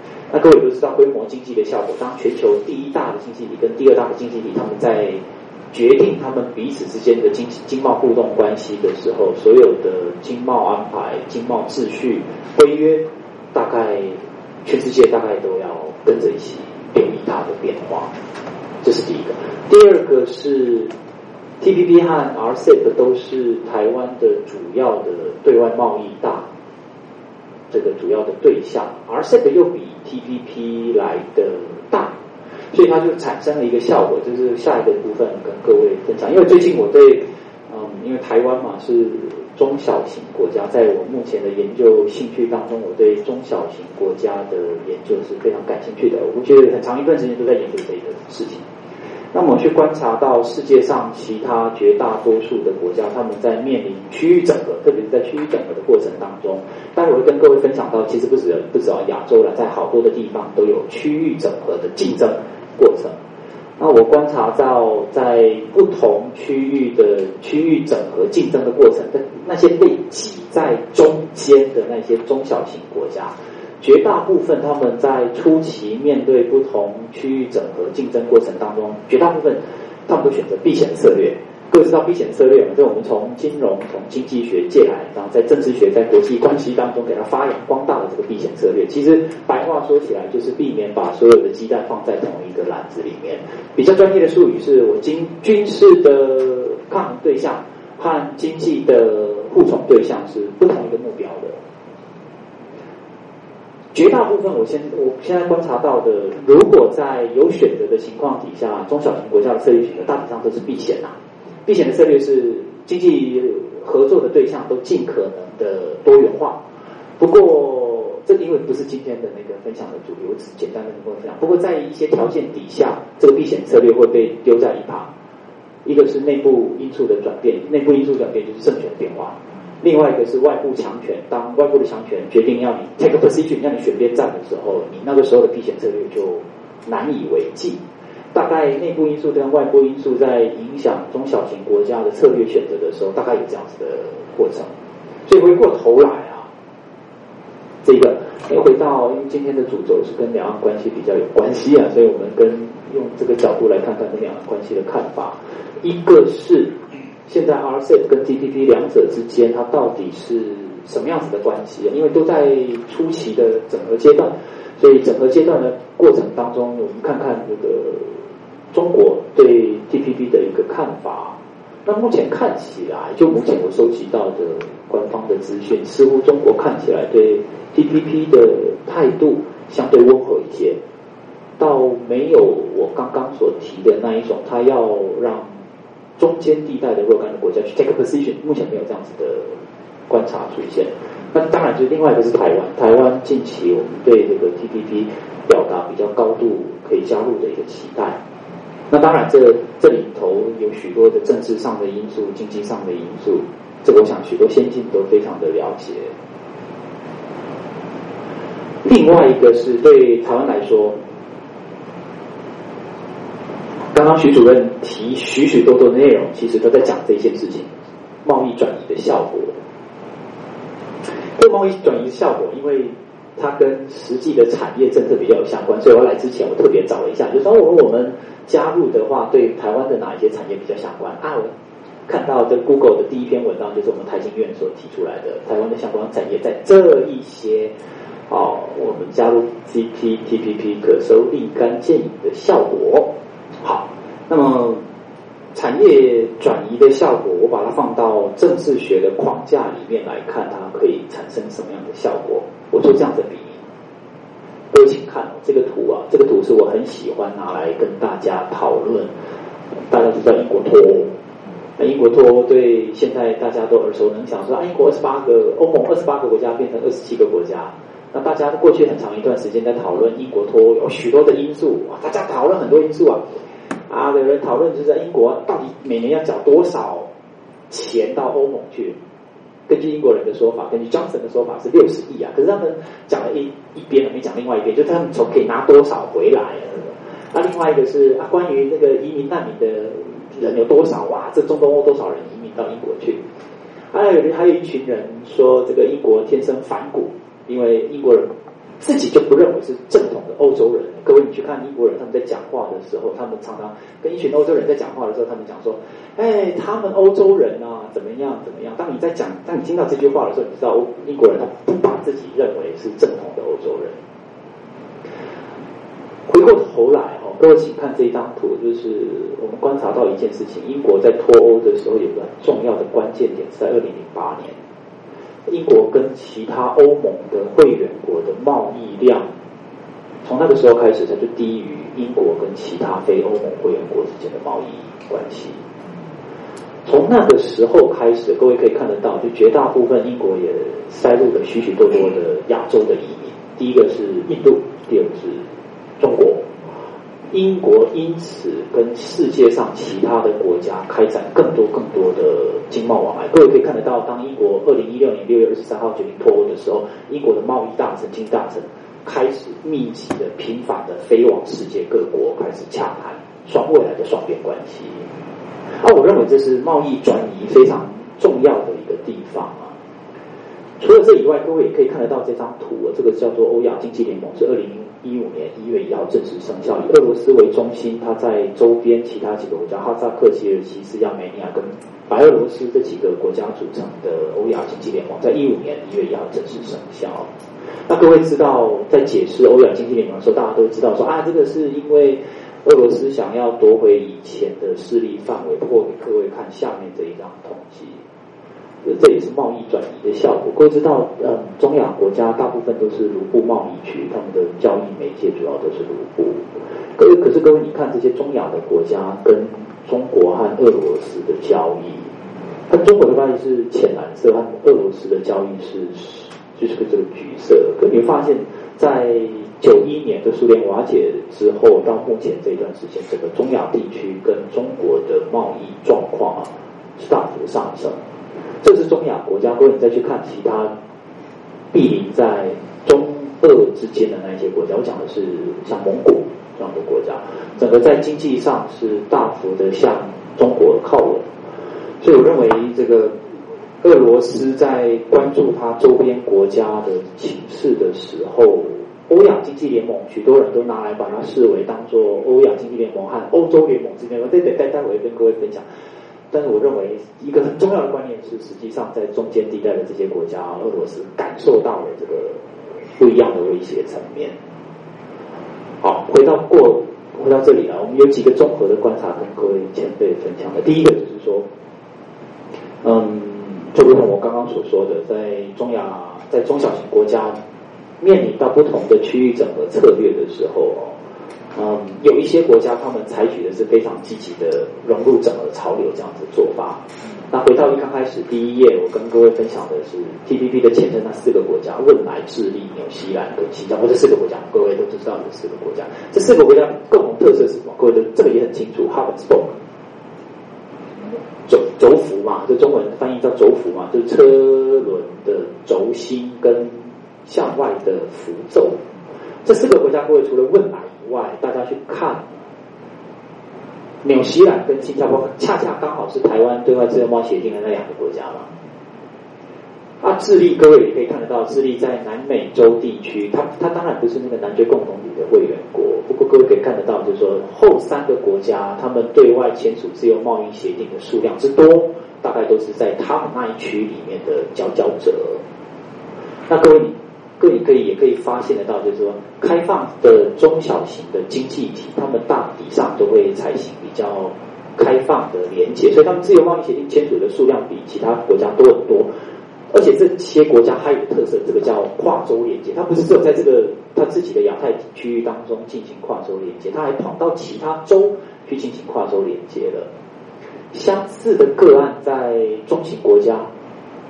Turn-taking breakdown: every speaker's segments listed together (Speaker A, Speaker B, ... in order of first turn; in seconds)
Speaker A: 0.3-18.1, 18.8-20.9, 21.6-26.5, 27.7-32.1, 32.7-48.6, 49.3-63.2, 63.8-101.6, 103.9-111.2, 111.7-116.6, 117.2-125.1, 125.8-137.8, 138.3-144.7, 145.3-146.5, 147.8-156.8, 157.3-180.8, 181.6-185.6, 186.2-198.2, 198.9-206.1, 208.8-211.0, 213.9-217.7, 218.2-219.6, 221.3-231.5, 232.1-237.7, 238.3-244.8, 245.5-253.6, 254.7-259.1, 259.9-261.1, 261.8-273.2, 273.9-277.1, 277.7-279.0, 279.7-293.2, 293.9-314.0, 316.3-324.6, 325.5-329.3, 330.2-335.6, 336.9-345.4, 346.0-346.5, 347.3-365.1, 365.8-369.7, 370.8-387.3, 387.9-398.0, 398.8-412.1, 412.7-428.0, 428.6-430.7, 431.7-441.2, 442.0-443.2, 443.8-455.6, 456.3-462.4, 463.0-464.4, 465.8-471.4, 472.8-477.4, 478.0-480.9, 481.6-499.6, 501.5-508.8, 509.4-512.4, 514.0-518.5, 520.0-535.4, 536.5-549.1, 549.7-559.9, 560.7-563.5